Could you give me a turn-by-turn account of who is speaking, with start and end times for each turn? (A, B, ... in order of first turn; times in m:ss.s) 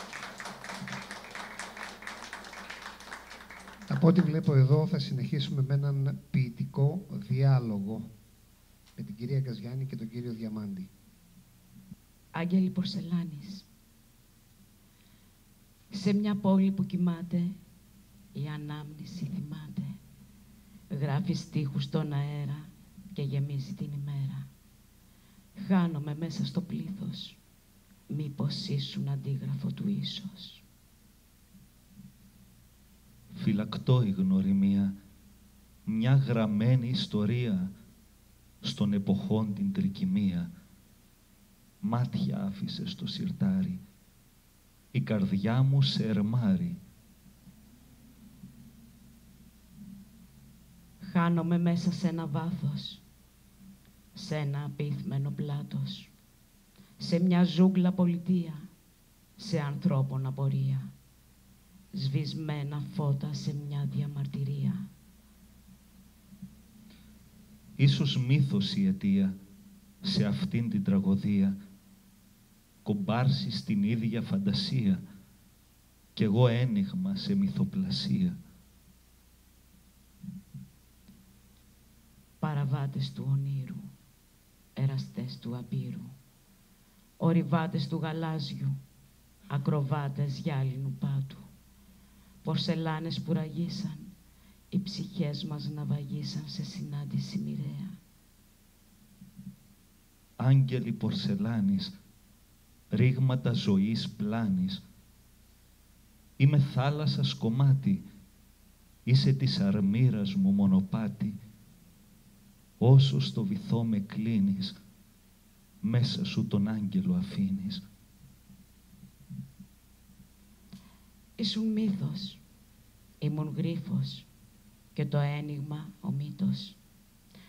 0:03.9-0:08.1 A
0:09.0-0:10.9 A
0:12.3-0:13.7 B
0:15.9-0:17.6 B
0:18.3-0:20.0 B
0:20.9-0:24.5 B
0:25.6-0:27.4 B
0:28.1-0:30.6 B
0:33.3-0:35.0 C
0:35.9-0:37.7 C
0:38.6-0:40.5 C
0:41.8-0:43.8 C
0:44.9-0:46.8 C
0:51.0-0:53.0 B
0:54.2-0:56.1 B
0:57.0-0:58.7 B
0:59.4-1:00.9 B
1:01.9-1:04.9 B
1:07.8-1:09.4 C
1:10.0-1:11.6 C
1:12.8-1:15.0 C
1:16.2-1:18.4 C
1:22.4-1:23.9 B
1:24.8-1:26.1 B
1:27.2-1:28.8 B
1:29.5-1:31.4 B
1:32.4-1:34.1 B
1:34.7-1:38.0 B
1:40.4-1:42.0 C
1:42.9-1:44.8 C
1:46.4-1:48.1 C
1:49.1-1:51.4 C
1:52.8-1:54.8 C
1:55.8-1:57.8 C
2:01.4-2:02.4 B
2:03.2-2:04.3 B
2:05.0-2:06.8 B